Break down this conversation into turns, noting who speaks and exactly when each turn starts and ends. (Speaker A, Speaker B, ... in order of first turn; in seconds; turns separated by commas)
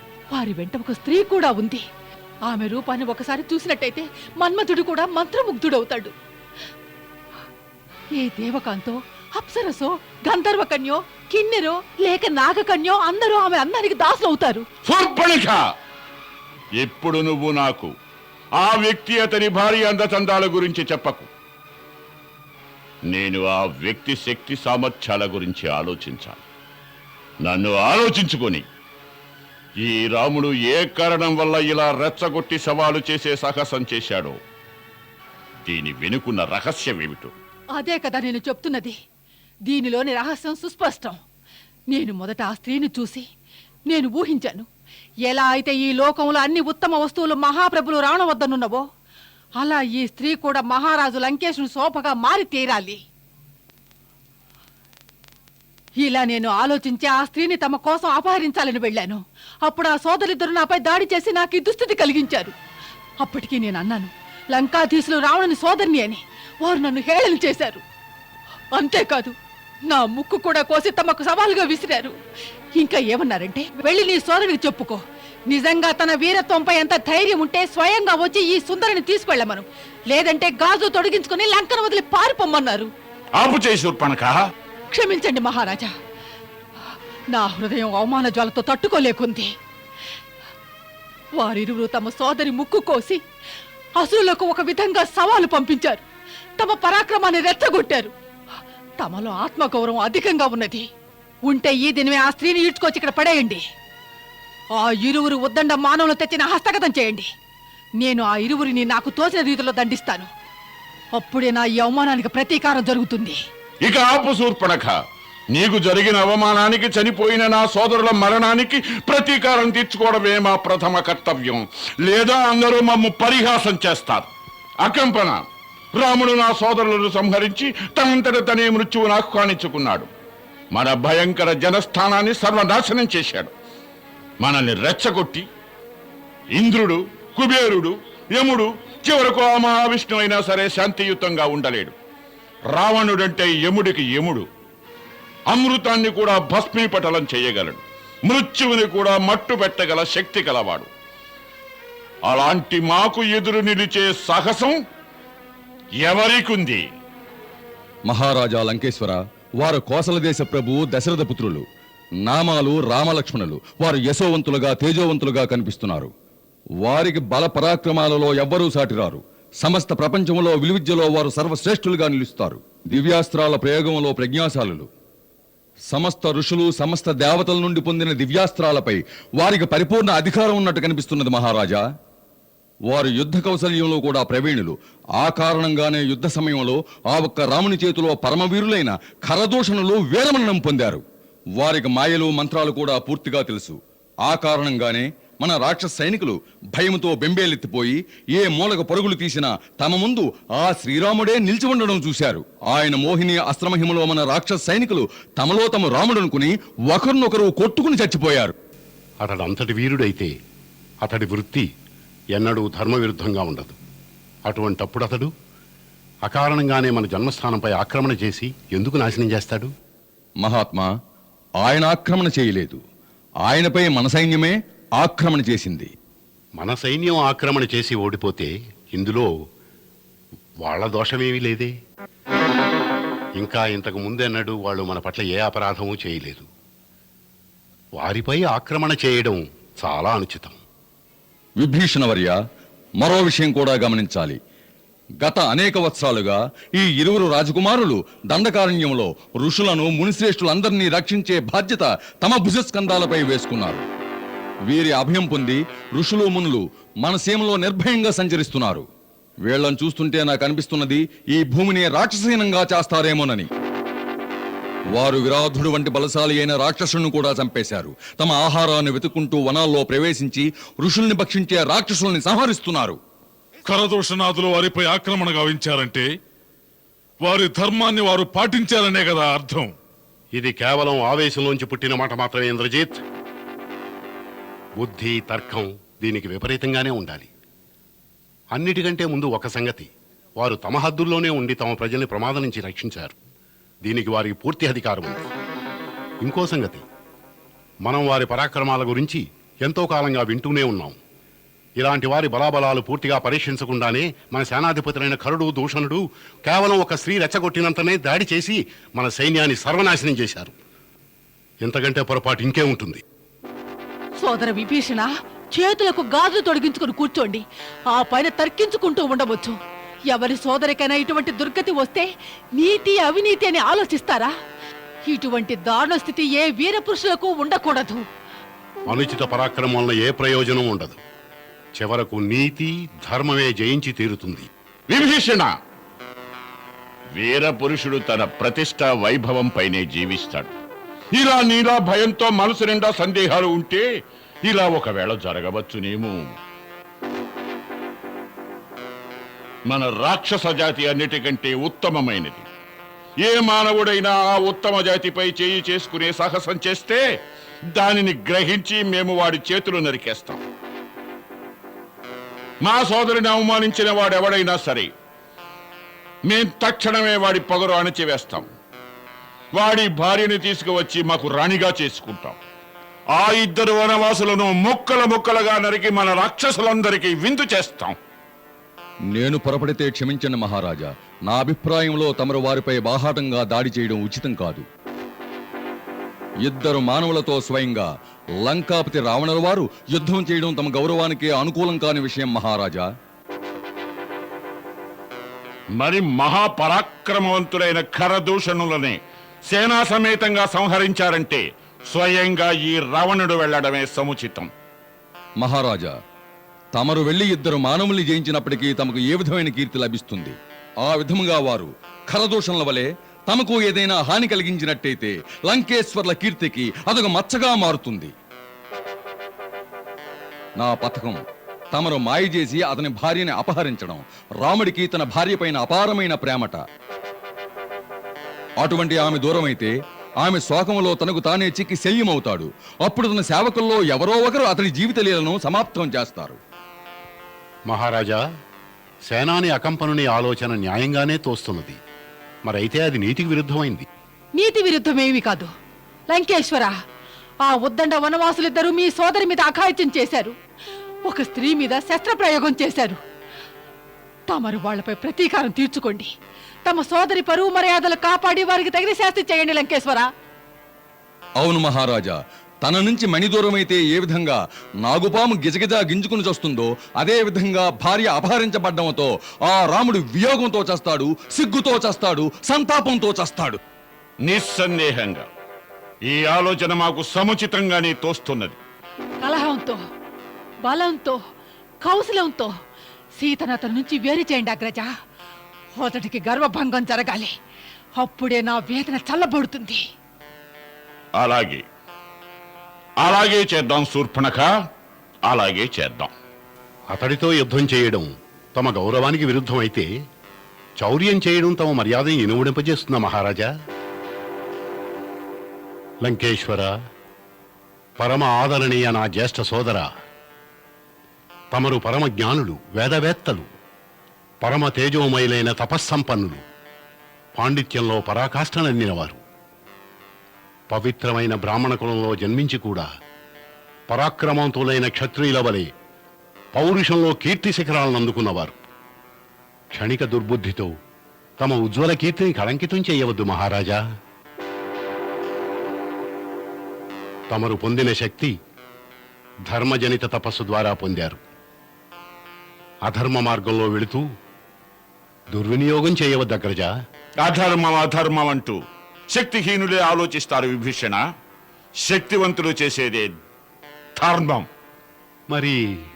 Speaker A: 0.3-1.8, Speaker A: 2.5-6.1, Speaker A: 8.2-14.7, Speaker B: 14.8-15.6, Speaker B: 16.8-17.9, Speaker B: 18.6-21.3, Speaker B: 23.1-26.4, Speaker B: 27.4-28.6, Speaker B: 29.8-34.4, Speaker B: 35.7-37.3, Speaker A: 37.8-39.0, Speaker A: 39.7-41.2, Speaker A: 41.9-43.2, Speaker A: 43.9-44.7, Speaker A: 45.2-48.8, Speaker A: 49.6-53.0, Speaker A: 56.0-62.5, Speaker A: 63.2-67.8, Speaker A: 68.7-69.3, Speaker A: 69.9-72.2, Speaker A: 72.8-82.9, Speaker B: 83.4-84.4, Speaker A: 84.9-85.9, Speaker A: 87.3-89.5, Speaker A: 91.4-93.2, Speaker A: 94.0-96.0, Speaker A: 96.6-98.1, Speaker A: 99.0-100.9, Speaker A: 101.5-103.6, Speaker A: 104.8-107.3, Speaker A: 108.0-110.3, Speaker A: 111.2-113.4, Speaker B: 113.8-114.9, Speaker B: 115.5-124.3, Speaker B: 124.8-125.4, Speaker B: 126.0-130.1, Speaker B: 130.7-133.5, Speaker B: 134.4-135.4, Speaker B: 136.6-141.9, Speaker B: 142.7-144.4, Speaker B: 145.5-150.9, Speaker B: 152.3-154.8, Speaker B: 156.0-156.8, Speaker C: 158.1-161.6, Speaker C: 162.2-166.1, Speaker C: 166.8-174.9, Speaker C: 175.9-181.8, Speaker C: 182.9-191.0, Speaker C: 191.6-208.5, Speaker D: 209.2-210.3, Speaker D: 211.0-211.7, Speaker D: 212.3-213.8, Speaker D: 214.4-215.3, Speaker D: 216.2-219.7, Speaker C: 220.4-220.9, Speaker C: 221.6-222.8, Speaker C: 223.4-225.9, Speaker D: 226.6-229.3, Speaker D: 230.6-231.7, Speaker D: 233.4-236.4, Speaker D: 238.0-240.6, Speaker C: 241.6-242.3, Speaker C: 243.0-244.4, Speaker C: 245.2-253.8, Speaker C: 254.7-258.9, Speaker C: 259.4-263.5, Speaker C: 264.9-273.0, Speaker E: 273.6-276.1, Speaker E: 277.2-279.7, Speaker D: 280.3-283.0, Speaker D: 284.8-287.3, Speaker D: 288.5-293.1, Speaker D: 293.8-295.3, Speaker D: 296.2-296.8, Speaker D: 297.8-301.0, Speaker D: 301.8-310.5, Speaker D: 311.6-313.0, Speaker A: 314.2-319.6, Speaker A: 320.1-324.3, Speaker A: 325.1-328.0, Speaker D: 328.9-331.0, Speaker D: 331.8-334.5, Speaker B: 334.9-335.5, Speaker B: 337.2-340.5, Speaker B: 341.2-343.8, Speaker B: 344.4-346.3, Speaker B: 349.7-352.4, Speaker B: 353.2-357.0, Speaker B: 357.8-360.4, Speaker B: 362.6-364.9, Speaker B: 366.3-368.4, Speaker B: 369.6-372.4, Speaker B: 373.1-377.9, Speaker C: 379.1-384.6, Speaker C: 386.4-387.9, Speaker C: 388.4-392.9, Speaker B: 395.8-399.0, Speaker B: 399.5-404.5, Speaker C: 405.4-405.9, Speaker C: 406.8-418.1, Speaker C: 420.6-421.2, Speaker C: 421.7-426.6, Speaker C: 428.6-429.7, Speaker C: 430.2-436.4, Speaker D: 437.7-438.2, Speaker D: 439.1-441.8, Speaker D: 442.4-443.8, Speaker A: 444.4-445.5, Speaker A: 446.1-446.7, Speaker A: 447.4-450.4, Speaker A: 451.1-453.0, Speaker A: 454.3-456.1, Speaker A: 456.6-460.1, Speaker C: 461.4-473.6, Speaker B: 474.2-475.3, Speaker B: 476.1-478.6, Speaker A: 479.2-479.8, Speaker A: 480.6-481.2, Speaker A: 481.8-482.5, Speaker A: 483.2-484.9, Speaker A: 485.8-487.3, Speaker A: 488.0-489.8, Speaker B: 491.2-491.6, Speaker B: 493.0-494.5, Speaker B: 495.3-496.1, Speaker D: 496.9-499.9, Speaker D: 500.8-503.5, Speaker D: 506.0-506.7, Speaker D: 508.0-509.9, Speaker D: 511.5-513.5, Speaker D: 514.4-516.4, Speaker D: 517.4-519.2, Speaker D: 520.7-522.9, Speaker D: 523.9-525.7, Speaker D: 526.5-528.5, Speaker D: 529.7-530.7, Speaker D: 531.4-533.8, Speaker D: 537.3-538.4, Speaker D: 539.5-541.2, Speaker D: 542.9-544.0, Speaker D: 545.3-546.7, Speaker B: 547.2-548.6, Speaker B: 549.1-551.0, Speaker B: 551.8-553.1, Speaker B: 554.0-554.5, Speaker D: 555.3-555.8